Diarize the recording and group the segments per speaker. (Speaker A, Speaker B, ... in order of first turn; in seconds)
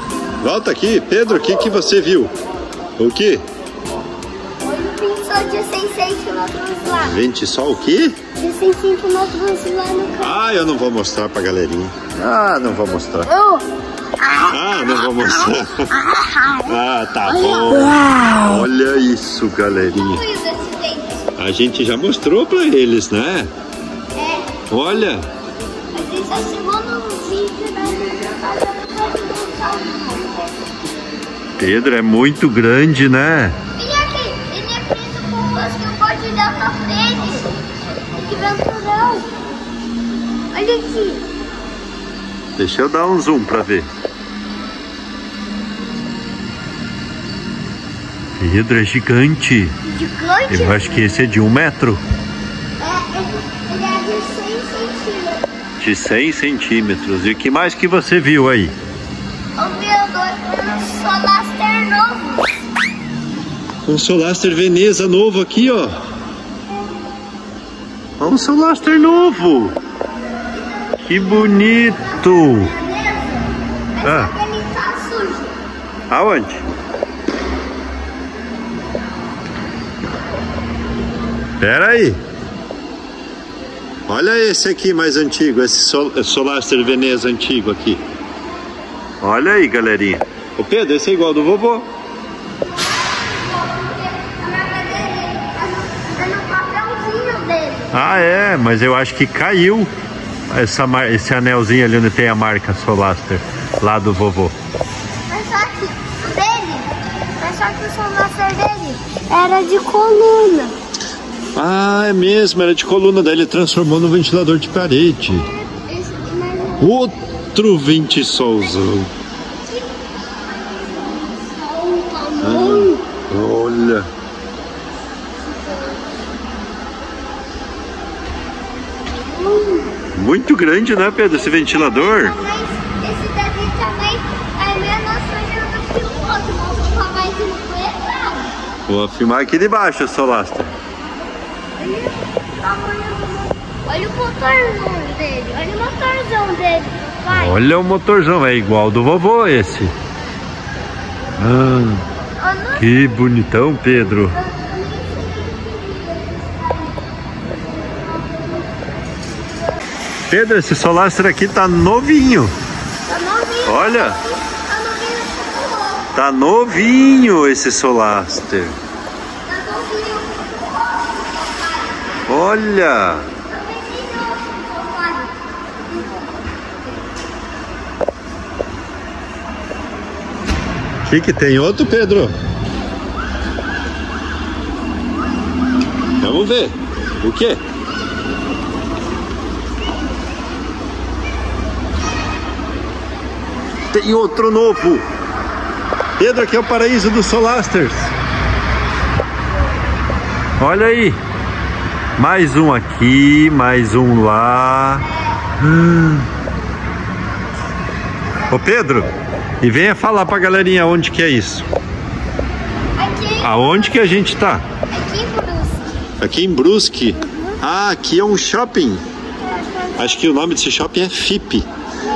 Speaker A: 0.4-2.3, 3.0-3.4, 7.0-8.2, 10.2-13.3, 14.5-16.0, 16.6-20.2, 21.4-23.5, 24.7-25.2, 31.6-33.6, 42.6-43.9, 48.4-49.7, 50.5-52.0, 55.8-58.7, 63.8-66.0, 68.2-69.8, 71.0-72.7, 74.0-74.3, 76.1-76.6, 81.6-82.2, 84.1-88.0, 89.2-91.9, 97.9-99.9, 100.5-104.5, 111.5-115.5, 116.8-119.1, 122.4-124.1, 130.1-132.3, 138.9-140.7, 147.3-149.9, 151.4-152.0, 152.8-154.3, 160.3-162.5, 163.6-164.2, 166.1-168.8, 172.3-173.3, 181.0-182.3, 186.2-187.6, 193.9-195.0, 196.2-198.1, 200.6-201.2, 202.2-205.1, 205.6-206.3, 208.5-211.7, 213.4-214.6, 216.2-219.0, 219.9-221.7
Speaker B: 4.6-7.2, 8.4-10.4, 13.3-13.7, 14.2-16.7, 17.2-18.7, 19.9-21.3, 24.1-24.5, 25.9-30.7, 33.8-37.5, 38.2-39.3, 40.5-41.3, 49.9-51.0, 52.8-55.5, 59.6-62.6, 70.9-75.6, 93.0-98.1, 105.3-110.8, 115.5-117.0, 119.7-123.0, 129.3-129.9, 131.3-138.5, 141.8-147.6, 152.4-153.1, 154.3-157.1, 157.6-158.7, 163.1-166.1, 169.4-172.2, 173.5-175.4, 212.9-214.0, 214.9-215.9, 217.2-217.6, 219.4-220.2